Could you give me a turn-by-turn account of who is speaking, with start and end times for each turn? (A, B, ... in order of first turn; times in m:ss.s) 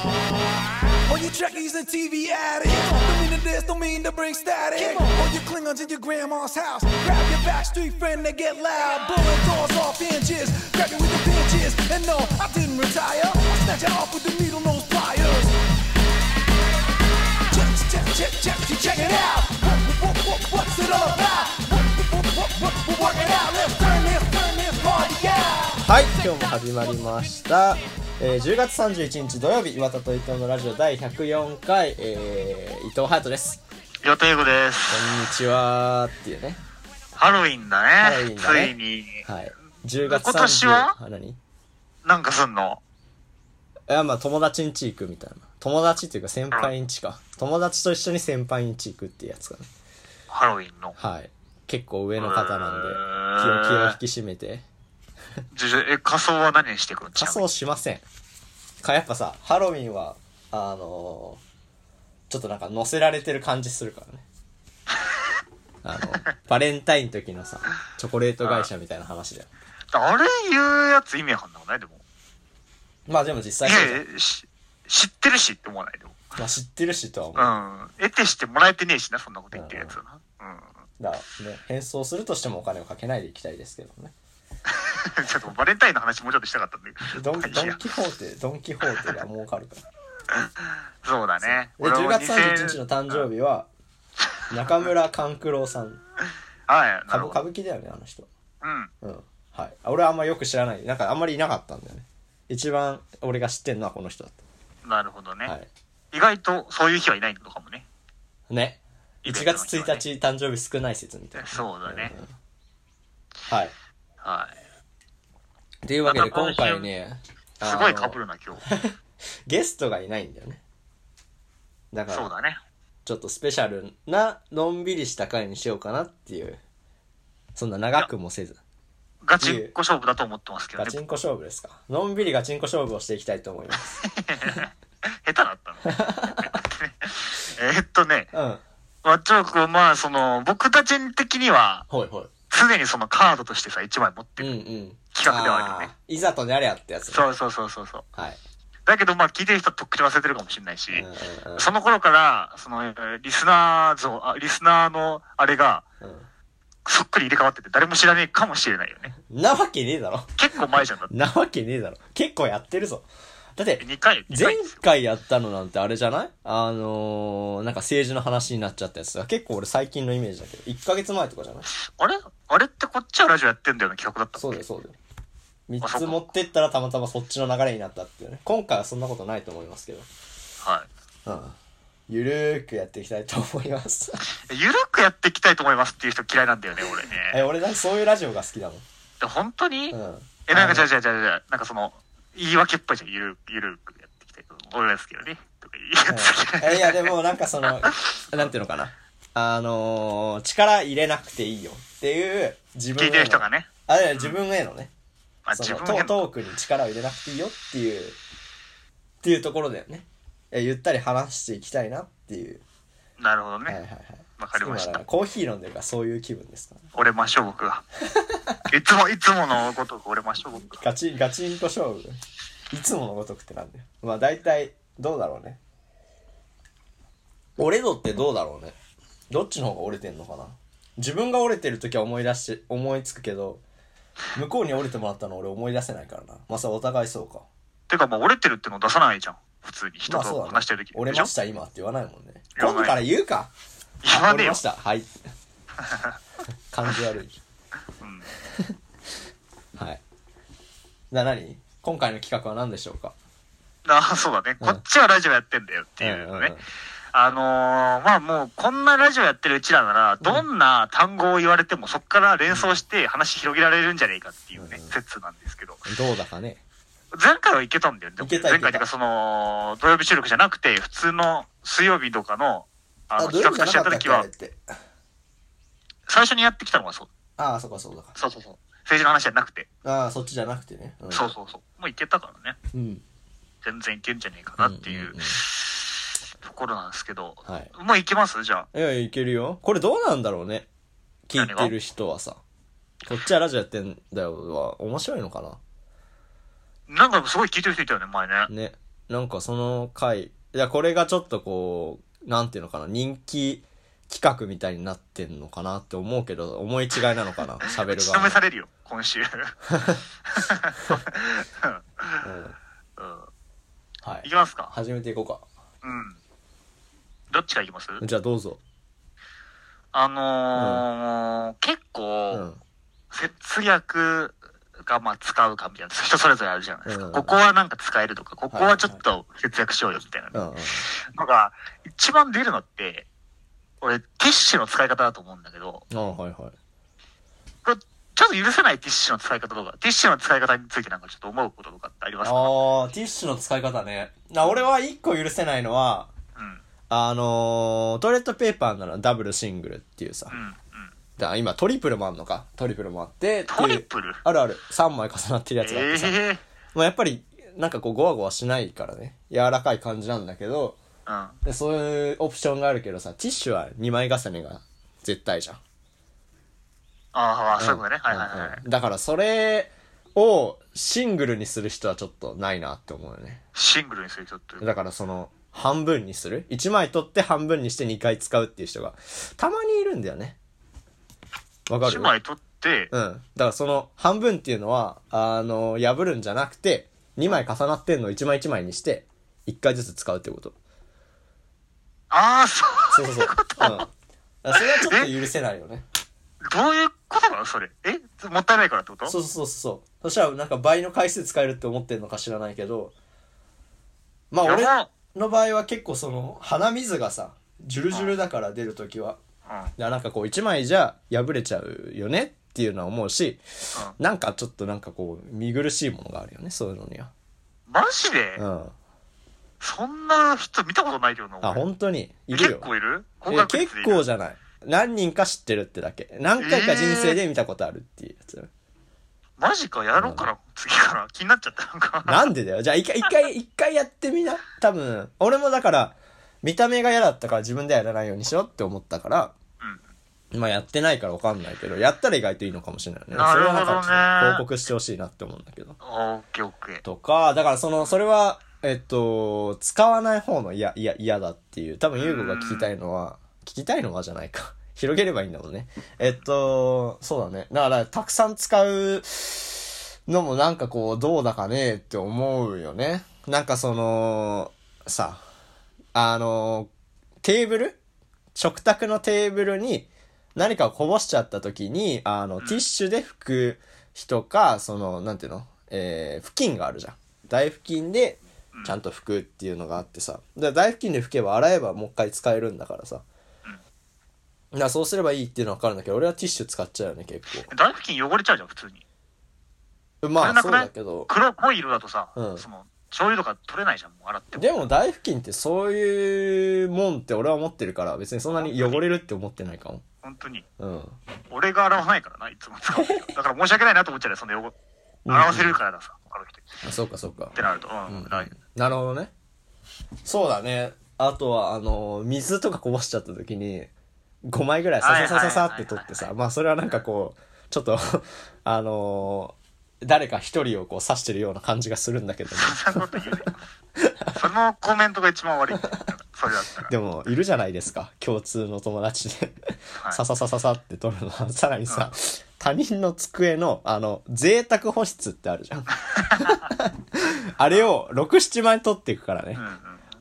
0:01.0-0:15.6 A
0:17.5-0:25.8 A
0:25.8-0:33.6 B
0:34.0-0:35.1 C
0:34.9-0:36.6 B
0:37.2-0:39.2 C
0:38.0-0:41.4 B
0:40.0-0:40.9 C
0:42.0-0:42.8 C
0:43.9-0:49.7 B
0:50.3-0:50.9 C
0:51.0-0:54.6 B
0:52.2-0:54.0 C
0:55.5-0:57.4 C
0:57.2-0:58.0 B
0:58.8-1:01.4 B
1:02.3-1:04.2 B
1:05.8-1:09.5 B
1:08.4-1:08.7 C
1:09.9-1:12.0 C
1:13.1-1:14.0 B
1:13.6-1:16.2 C
1:16.4-1:17.5 B
1:17.4-1:20.7 C
1:19.5-1:20.0 B
1:21.0-1:24.1 B
1:24.7-1:27.8 C
1:27.1-1:29.8 B
1:30.3-1:33.2 C
1:31.4-1:33.7 B
1:34.5-1:36.0 B
1:36.7-1:37.4 C
1:37.1-1:38.3 B
1:38.6-1:38.9 C
1:39.0-1:44.4 B
1:44.8-1:45.5 C
1:46.1-1:47.8 C
1:48.5-1:52.3 B
1:49.2-1:50.0 C
1:51.4-1:52.1 C
1:53.5-1:53.7 B
1:54.2-1:54.6 C
1:55.8-1:58.9 B
1:56.0-1:56.9 C
1:57.6-1:58.6 C
1:59.5-2:00.6 B
2:01.9-2:02.3 B
2:02.1-2:02.6 C
2:03.0-2:06.6 B
2:07.6-2:08.6 B
2:09.2-2:11.0 C
2:09.4-2:09.7 B
2:10.8-2:14.0 B
2:14.0-2:18.3 C
2:15.8-2:16.5 B
2:18.3-2:18.6 B
2:19.0-2:21.8 C
2:21.9-2:22.3 B
2:22.5-2:24.6 C
2:24.4-2:27.2 B
2:25.1-2:25.9 C
2:27.1-2:28.0 C
2:28.8-2:35.8 C
2:30.9-2:31.7 B
2:36.0-2:36.3 B
2:36.8-2:39.1 C
2:39.3-2:51.7 B
2:40.4-2:41.1 C
2:43.8-2:44.8 C
2:52.0-2:54.6 C
2:54.4-2:55.0 B
2:55.7-3:00.1 B
2:55.8-2:56.2 C
3:00.6-3:00.9 C
3:01.2-3:01.6 B
3:02.1-3:04.2 B
3:04.3-3:07.4 C
3:07.3-3:08.8 B
3:09.2-3:18.5 C
3:09.9-3:10.9 B
3:16.1-3:24.9 B
3:23.0-3:24.4 C
3:25.4-3:26.2 C
3:25.5-3:28.2 B
3:29.2-3:32.6 B
3:33.2-3:33.8 C
3:33.7-3:36.8 B
3:34.4-3:35.0 C
3:36.9-3:37.8 C
3:38.1-3:38.6 B
3:38.7-3:40.8 C
3:40.7-3:42.2 B
3:42.7-3:45.6 B
3:47.6-3:48.8 B
3:49.3-3:53.6 B
3:54.3-3:57.4 B
3:57.9-4:01.3 C
4:00.1-4:03.5 B
4:02.5-4:03.0 C
4:04.0-4:04.6 C
4:04.1-4:05.2 B
4:05.8-4:06.1 C
4:06.7-4:07.3 B
4:08.0-4:08.3 C
4:09.8-4:10.0 B
4:11.1-4:13.1 B
4:13.8-4:16.5 C
4:16.0-4:16.6 B
4:17.1-4:25.9 C
4:22.5-4:22.8 B
4:24.6-4:24.9 B
4:25.9-4:26.6 B
4:27.1-4:34.2 C
4:28.2-4:28.8 B
4:33.2-4:34.6 B
4:36.1-4:37.1 C
4:37.4-4:38.1 B
4:38.2-4:39.7 C
4:39.8-4:41.3 B
4:41.1-4:42.6 C
4:42.7-4:43.0 B
4:43.6-4:45.9 C
4:44.6-4:45.4 B
4:46.4-4:48.7 C
4:47.4-4:47.7 B
4:48.7-4:50.7 B
4:51.3-4:52.4 B
4:51.4-4:51.7 C
4:53.0-4:55.6 B
4:56.9-4:58.5 C
4:58.5-5:08.4 B
5:07.8-5:09.5 C
5:09.7-5:10.0 B
5:10.3-5:12.2 C
5:12.2-5:12.6 B
5:13.0-5:13.3 C
5:14.0-5:15.4 B
5:14.2-5:14.7 C
5:15.8-5:16.2 C
5:17.3-5:18.0 C
5:18.0-5:18.6 B
5:19.9-5:22.4 C
5:20.5-5:20.8 B
5:22.3-5:22.6 B
5:23.1-5:33.1 C
5:26.8-5:27.4 B
5:28.5-5:29.0 B
5:30.3-5:30.9 B
5:33.8-5:35.8 C
5:35.9-5:36.5 B
5:37.6-5:42.5 C
5:42.2-5:46.1 B
5:46.4-5:46.6 C
5:46.9-5:50.4 B
5:50.3-5:50.9 C
5:51.2-5:56.2 B
5:53.5-5:54.2 C
5:55.6-5:56.4 C
5:56.7-6:00.8 B
6:01.0-6:01.4 C
6:01.4-6:05.6 B
6:07.1-6:08.6 C
6:07.6-6:13.4 B
6:13.5-6:14.7 C
6:14.6-6:20.4 B
6:21.7-6:22.1 B
6:21.8-6:22.9 C
6:22.9-6:30.6 B
6:32.1-6:33.9 C
6:32.9-6:33.9 B
6:34.4-6:35.8 B
6:34.5-6:35.1 C
6:36.4-6:39.2 C
6:39.0-6:42.9 B
6:44.3-6:49.2 B
6:44.4-6:44.9 C
6:49.5-6:49.7 C
6:49.8-6:57.1 B
6:57.7-6:58.4 C
6:58.4-6:58.7 B
6:59.6-7:01.6 C
7:01.4-7:02.7 B
7:02.3-7:04.0 C
7:03.3-7:08.5 B
7:06.4-7:07.2 C
7:09.4-7:12.3 C
7:10.0-7:10.3 B
7:12.0-7:19.3 B
7:20.3-7:25.8 B
7:23.1-7:24.4 C
7:25.8-7:26.8 C
7:26.8-7:45.2 B
7:32.0-7:32.7 C
7:45.9-7:46.7 B
7:47.2-7:47.8 B
7:48.3-8:03.0 B
8:04.5-8:07.5 B
8:07.5-8:08.8 C
8:10.0-8:11.1 B
8:10.2-8:14.7 C
8:12.2-8:12.4 B
8:14.3-8:19.8 B
8:18.3-8:18.9 C
8:20.0-8:20.4 C
8:20.6-8:21.0 B
8:21.3-8:24.5 C
8:22.7-8:23.1 B
8:25.0-8:25.6 B
8:25.1-8:26.5 C
8:26.6-8:27.4 B
8:27.3-8:28.3 C
8:27.9-8:29.1 B
8:30.0-8:33.7 B
8:34.3-8:43.0 B
8:34.8-8:36.1 C
8:42.3-8:43.4 C
8:43.8-8:44.2 B
8:44.1-8:46.7 C
8:46.6-8:49.4 B
8:49.9-8:59.4 B
8:55.9-8:56.4 C
8:59.4-8:59.8 C